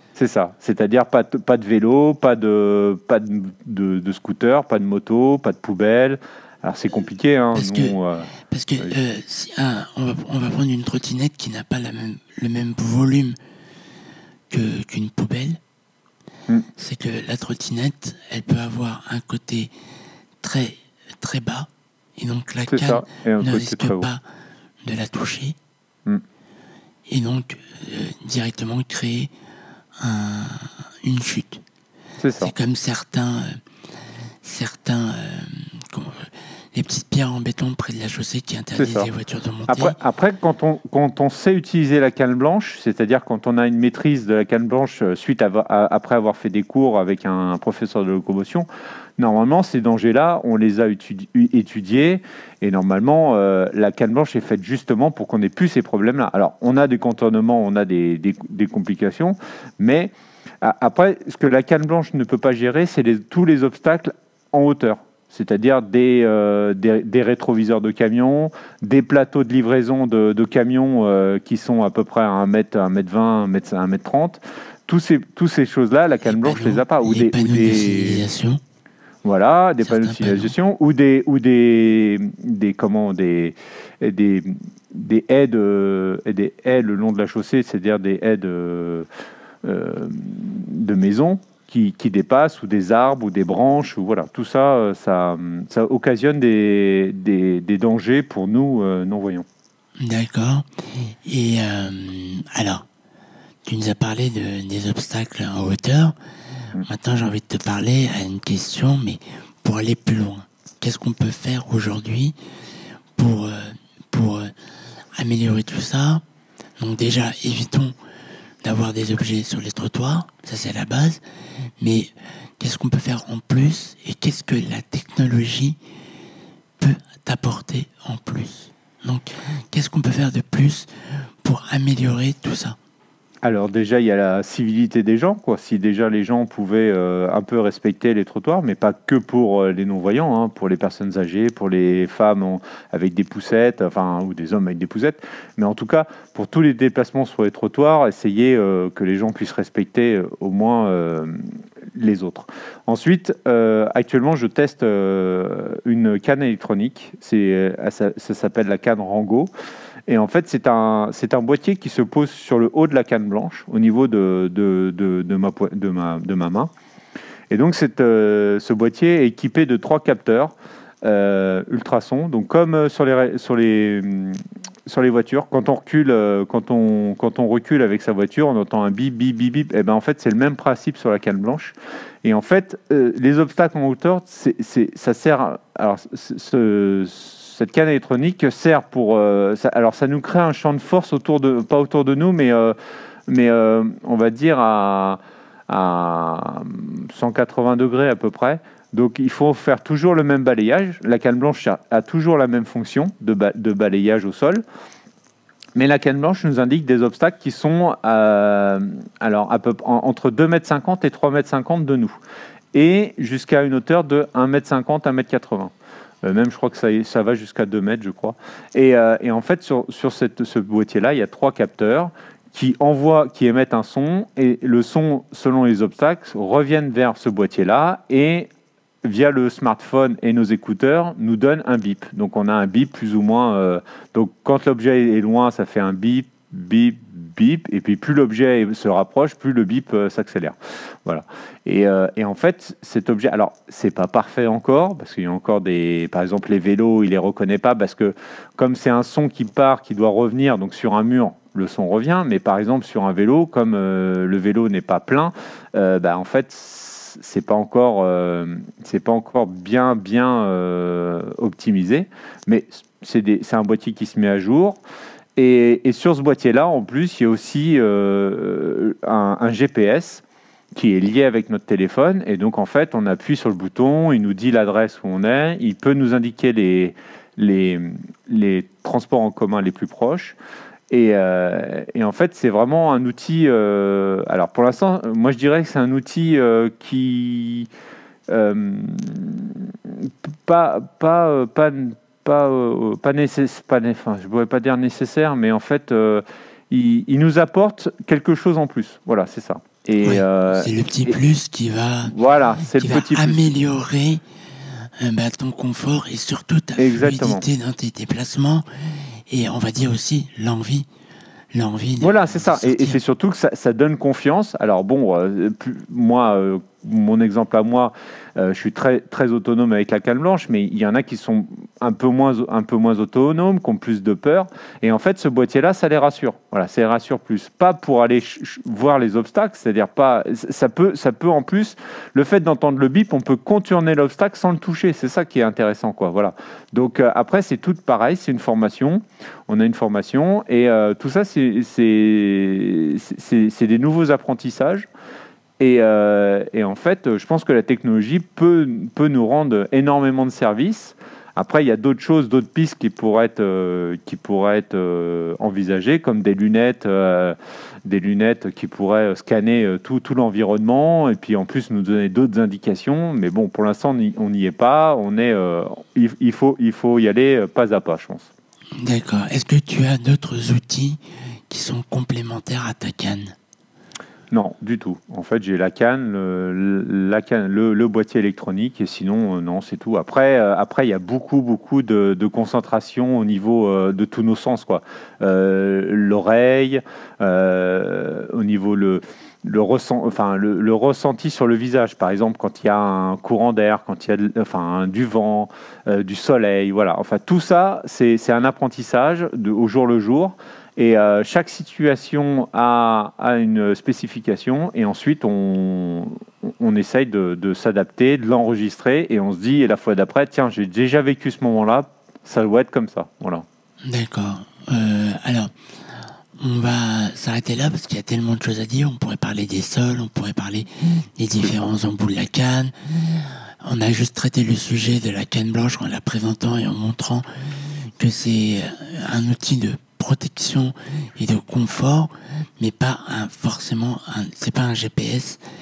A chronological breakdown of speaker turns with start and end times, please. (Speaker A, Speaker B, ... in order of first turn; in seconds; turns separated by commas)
Speaker A: 0.1-9.0, Speaker B: 7.5-8.0, Speaker B: 8.5-13.3, Speaker B: 14.5-15.6, Speaker B: 16.8-19.7, Speaker B: 20.4-24.2, Speaker A: 22.7-24.1, Speaker B: 24.8-25.6, Speaker B: 27.1-29.3, Speaker B: 30.0-31.6, Speaker A: 32.2-32.5, Speaker B: 32.4-33.6, Speaker B: 34.4-39.9, Speaker A: 38.8-39.1, Speaker A: 39.7-48.7, Speaker A: 49.2-78.2, Speaker B: 76.2-78.6, Speaker A: 79.2-89.1, Speaker B: 79.8-80.5, Speaker A: 89.6-99.5, Speaker B: 100.0-102.8, Speaker B: 103.7-106.2, Speaker B: 106.8-112.4, Speaker B: 113.2-114.5, Speaker B: 115.2-116.2, Speaker B: 116.8-117.9, Speaker B: 118.6-121.2, Speaker B: 121.8-125.8, Speaker B: 126.8-130.9, Speaker B: 131.4-132.8, Speaker A: 133.4-151.4, Speaker A: 151.9-159.5, Speaker A: 160.1-166.7, Speaker A: 167.5-192.8, Speaker A: 193.3-204.6, Speaker A: 205.7-212.2, Speaker A: 212.7-228.5, Speaker A: 229.0-264.8, Speaker A: 265.4-270.2, Speaker A: 270.7-280.4, Speaker A: 280.9-287.7, Speaker A: 288.3-301.2, Speaker B: 300.0-302.1, Speaker A: 302.1-303.6, Speaker B: 302.7-304.2, Speaker B: 305.0-308.6, Speaker A: 306.8-307.4, Speaker B: 309.3-310.9, Speaker B: 311.5-313.0, Speaker A: 312.0-344.9, Speaker A: 345.6-368.3, Speaker B: 368.8-373.4, Speaker A: 374.3-413.4, Speaker B: 413.9-415.5, Speaker B: 416.4-435.4, Speaker A: 421.4-421.7